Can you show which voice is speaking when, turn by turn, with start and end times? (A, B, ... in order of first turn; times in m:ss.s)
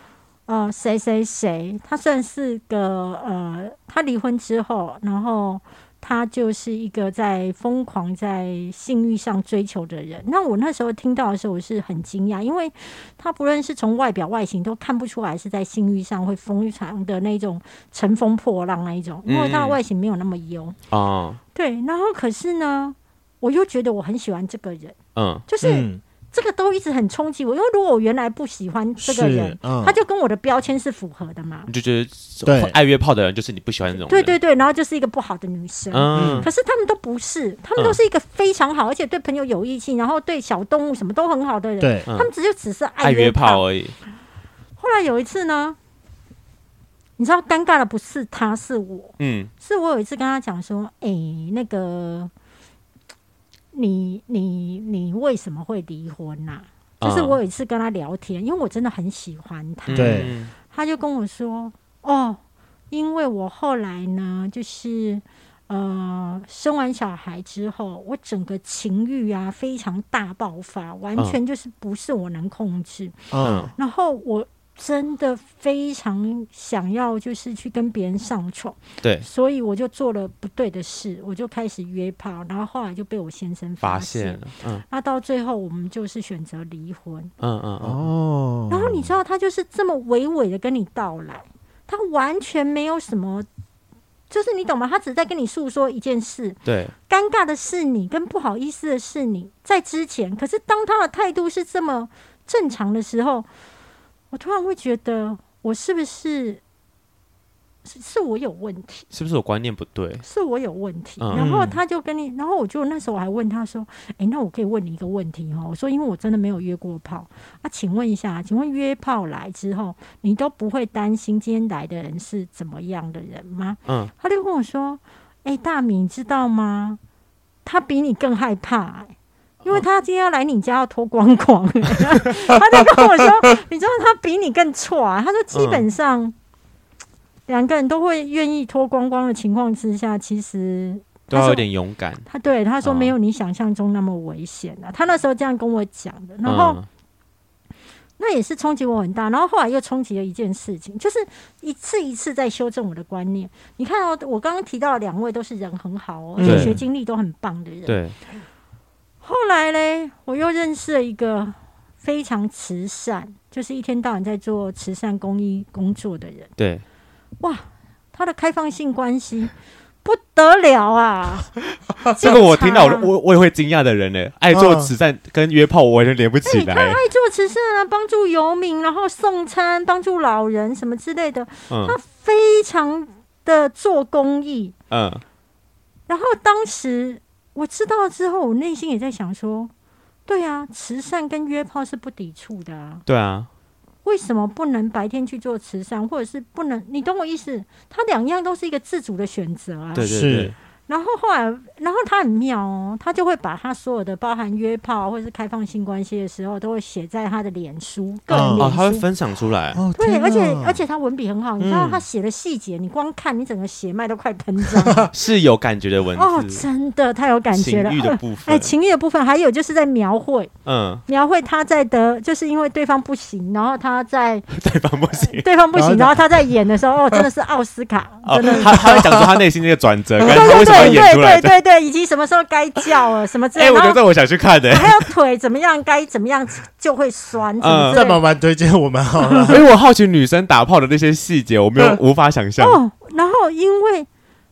0:00.5-0:20.7 A
0:19.2-0:19.8 B
0:20.9-0:21.4 B
0:21.5-0:25.0 A
0:25.1-0:25.4 B
0:25.5-0:31.7 A
0:25.6-0:26.0 C
0:29.0-0:30.0 C
0:31.7-0:34.4 B
0:32.4-0:32.7 C
0:34.1-0:43.6 A
0:35.9-0:36.5 B
0:36.1-0:36.5 C
0:41.8-0:42.0 C
0:43.0-0:44.0 B
0:44.8-0:45.8 A
0:47.2-0:52.3 A
0:49.2-0:49.5 B
0:53.7-1:02.4 A
0:57.0-0:57.4 B
0:59.9-1:00.5 B
0:59.9-1:00.3 C
1:02.9-1:13.2 A
1:13.3-1:13.7 C
1:13.4-1:13.7 B
1:13.8-1:27.3 A
1:23.8-1:24.8 B
1:27.4-1:28.0 B
1:27.8-1:29.1 C
1:28.7-1:33.4 A
1:34.3-1:43.5 A
1:36.6-1:36.9 B
1:44.3-1:46.6 A
1:47.8-1:49.0 A
1:49.1-1:50.2 B
1:50.2-2:07.0 A
1:51.2-1:51.4 B
1:51.3-1:51.8 C
2:03.8-2:04.1 B
2:07.6-2:09.1 A
2:09.6-2:16.3 A
2:15.5-2:15.8 B
2:17.5-2:21.6 A
2:21.3-2:22.2 B
2:22.3-2:26.8 A
2:22.8-2:23.1 B
2:26.4-2:26.8 B
2:28.2-2:38.0 A
2:36.4-2:36.8 C
2:36.4-2:36.8 B
2:37.9-2:38.2 B
2:39.2-2:46.5 A
2:46.6-2:46.8 B
2:47.4-2:49.5 A
2:50.0-2:51.5 A
2:52.0-2:57.0 B
2:52.0-2:53.1 A
2:54.5-2:54.9 C
2:56.4-3:04.7 A
3:01.7-3:02.0 B
3:04.9-3:05.2 B
3:06.1-3:09.7 A
3:10.3-3:13.0 A
3:13.0-3:13.5 B
3:14.0-3:20.1 A
3:19.9-3:20.5 B
3:20.0-3:20.5 C
3:20.9-3:29.0 A
3:28.3-3:28.7 C
3:28.6-3:29.8 B
3:29.7-3:30.8 C
3:30.0-3:35.1 A
3:31.6-3:32.0 C
3:34.7-3:35.1 C
3:35.1-3:36.6 B
3:36.2-3:40.5 A
3:37.5-3:38.7 B
3:40.6-3:41.0 B
3:41.1-3:44.5 A
3:44.5-3:45.5 B
3:45.2-3:48.7 A
3:45.7-3:46.4 C
3:48.2-3:51.6 B
3:48.4-3:49.4 C
3:50.2-3:54.0 A
3:50.2-3:51.0 C
3:53.5-3:55.1 B
3:54.7-3:58.2 A
3:57.6-3:58.0 B
3:57.9-3:59.6 C
3:59.2-3:59.5 A
3:59.5-4:02.8 B
4:02.6-4:04.1 A